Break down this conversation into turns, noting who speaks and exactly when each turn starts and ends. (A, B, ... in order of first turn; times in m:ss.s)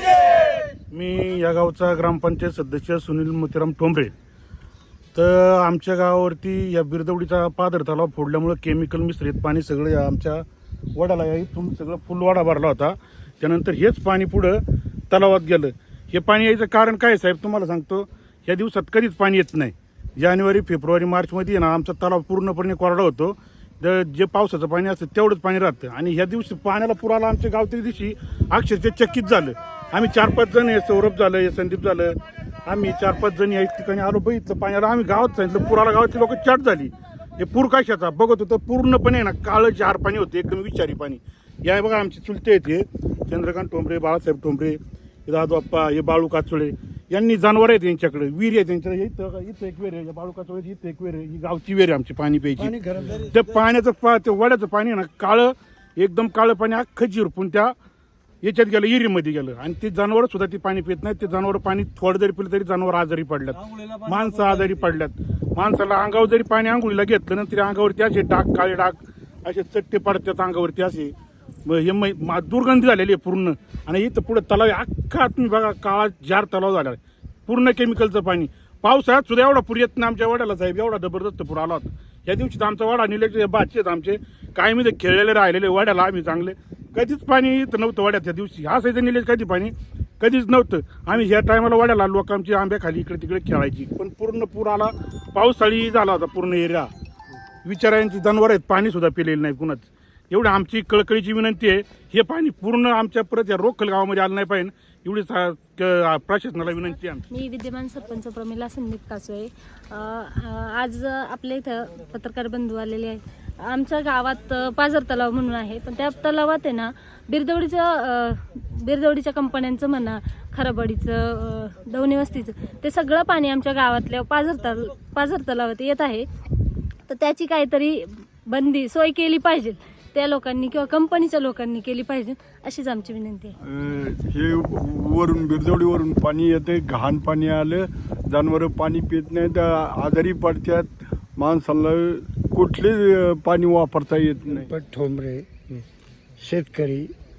0:00.9-0:04.1 A
0:05.2-0:10.4 A
0:11.0-0:52.7 A
0:52.6-0:53.3 B
0:53.3-0:57.7 A
0:58.4-1:11.1 A
1:11.7-1:36.9 A
1:37.6-1:47.2 A
1:47.3-2:06.2 C
2:07.1-2:13.5 C
2:13.6-2:24.7 D
2:24.5-2:25.8 B
2:26.4-2:27.1 B